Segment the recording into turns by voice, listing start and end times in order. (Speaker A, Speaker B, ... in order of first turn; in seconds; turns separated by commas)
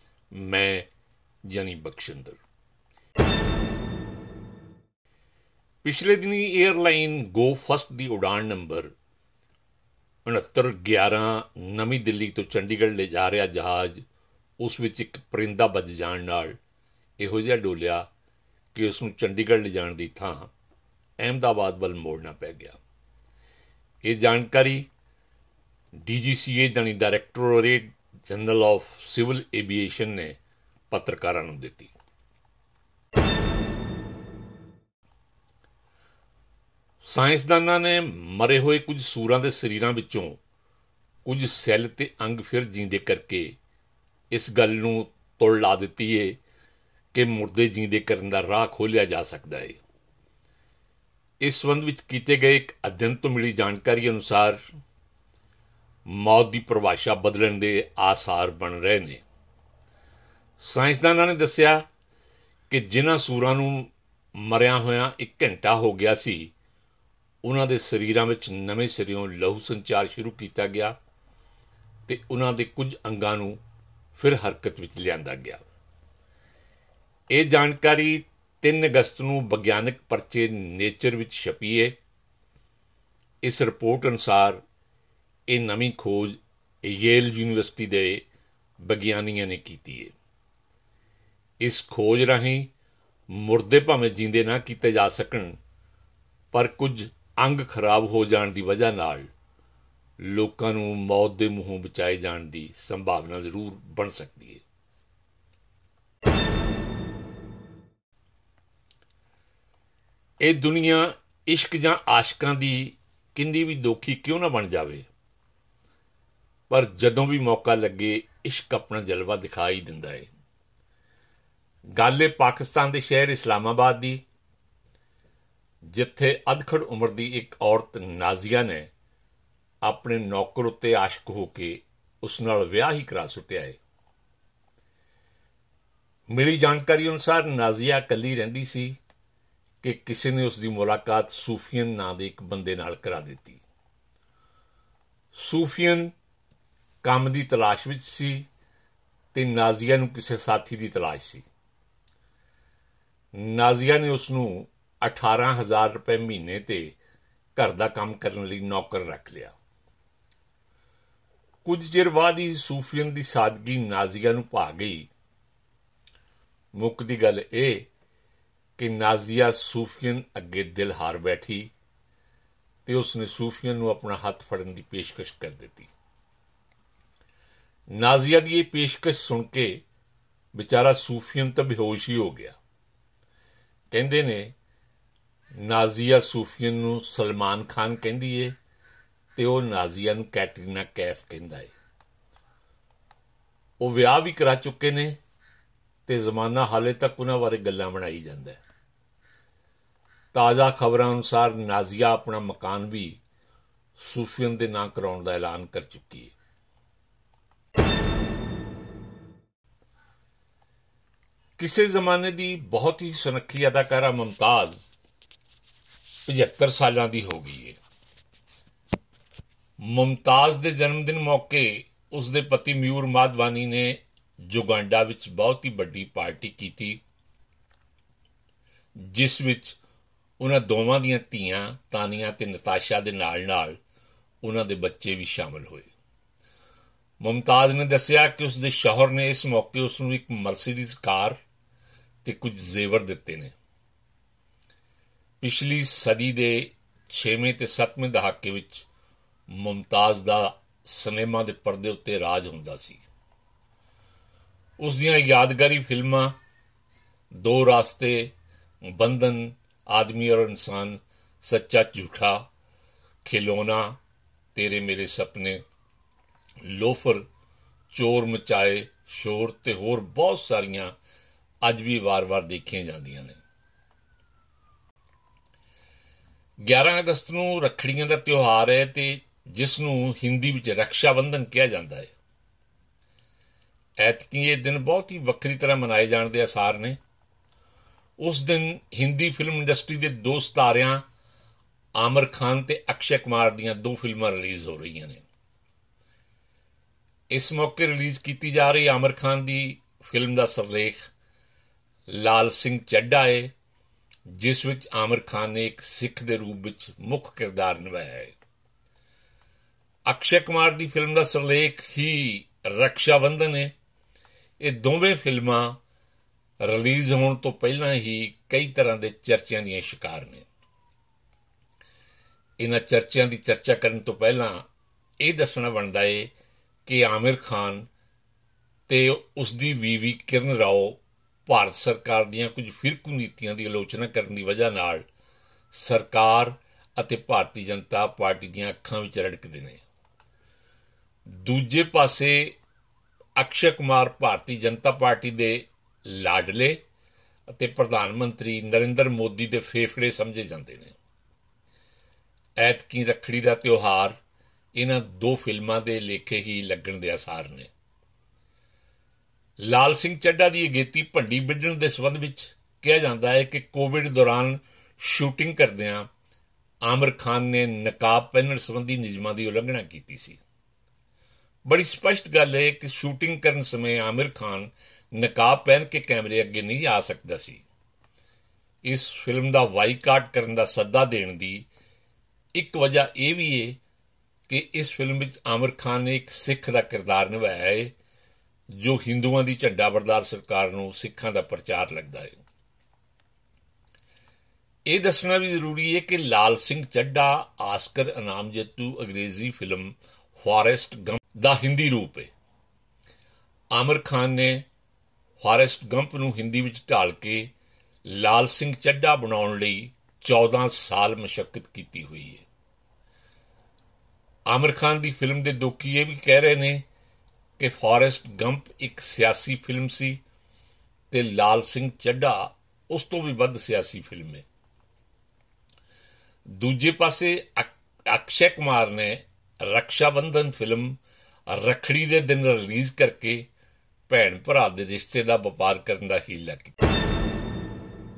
Speaker A: 0.3-0.9, Speaker A: 1.4-2.4, Speaker A: 5.8-8.9, Speaker A: 10.2-14.1, Speaker A: 14.6-16.6, Speaker A: 17.2-18.1, Speaker A: 18.7-20.5, Speaker A: 21.2-22.8, Speaker A: 24.0-24.9, Speaker A: 26.0-30.4, Speaker A: 30.9-31.9, Speaker A: 37.0-40.4, Speaker A: 41.2-43.6, Speaker A: 44.3-46.4, Speaker A: 47.1-49.8, Speaker A: 51.4-54.6, Speaker A: 56.1-59.2, Speaker A: 60.6-61.9, Speaker A: 62.7-66.5, Speaker A: 67.4-71.0, Speaker A: 72.1-73.6, Speaker A: 74.2-75.7, Speaker A: 77.3-82.0, Speaker A: 83.4-84.6, Speaker A: 85.5-88.2, Speaker A: 88.8-90.1, Speaker A: 91.6-92.7, Speaker A: 93.3-95.6, Speaker A: 96.5-99.3, Speaker A: 100.2-104.6, Speaker A: 110.4-115.1, Speaker A: 116.7-120.3, Speaker A: 122.0-124.2, Speaker A: 125.8-128.9, Speaker A: 129.8-133.8, Speaker A: 136.3-139.0, Speaker A: 139.8-143.6, Speaker A: 145.3-146.1, Speaker A: 147.0-148.5, Speaker A: 149.3-151.5, Speaker A: 153.3-157.0, Speaker A: 157.6-159.6, Speaker A: 161.6-165.1, Speaker A: 166.7-167.9, Speaker A: 168.8-171.7, Speaker A: 172.8-175.9, Speaker A: 177.9-179.8, Speaker A: 180.5-182.6, Speaker A: 183.9-184.6, Speaker A: 185.5-188.6, Speaker A: 189.3-191.7, Speaker A: 193.8-195.2, Speaker A: 196.1-198.6, Speaker A: 200.3-203.2, Speaker A: 204.0-206.3, Speaker A: 211.6-214.9, Speaker A: 216.3-217.8, Speaker A: 219.8-227.0, Speaker A: 229.0-229.8, Speaker A: 230.4-233.8, Speaker A: 234.4-235.9, Speaker A: 237.2-241.4, Speaker A: 242.2-243.5, Speaker A: 245.4-248.9, Speaker A: 249.5-253.0, Speaker A: 254.8-256.4, Speaker A: 257.3-262.5, Speaker A: 263.2-264.0, Speaker A: 264.6-265.6, Speaker A: 266.6-267.3, Speaker A: 267.9-270.9, Speaker A: 271.6-273.4, Speaker A: 276.6-282.1, Speaker A: 284.0-287.0, Speaker A: 288.2-291.1, Speaker A: 291.9-295.2, Speaker A: 297.3-301.1, Speaker A: 302.1-303.5, Speaker A: 304.3-308.4, Speaker A: 310.1-313.7, Speaker A: 314.6-315.8, Speaker A: 316.6-320.5, Speaker A: 322.6-324.7, Speaker A: 325.2-326.3, Speaker A: 326.9-327.9, Speaker A: 328.9-335.1, Speaker A: 335.7-339.8, Speaker A: 341.3-342.6, Speaker A: 343.4-346.8, Speaker A: 347.5-351.0, Speaker A: 352.6-354.2, Speaker A: 354.7-357.7, Speaker A: 359.6-366.1, Speaker A: 366.8-370.4, Speaker A: 371.6-377.6, Speaker A: 378.8-381.7, Speaker A: 382.6-383.8, Speaker A: 384.5-387.9, Speaker A: 388.7-392.4, Speaker A: 394.9-402.3, Speaker A: 403.7-404.7, Speaker A: 405.4-407.5, Speaker A: 408.1-412.5, Speaker A: 414.5-416.8, Speaker A: 417.6-420.2, Speaker A: 421.1-424.4, Speaker A: 426.5-433.5, Speaker A: 434.1-436.8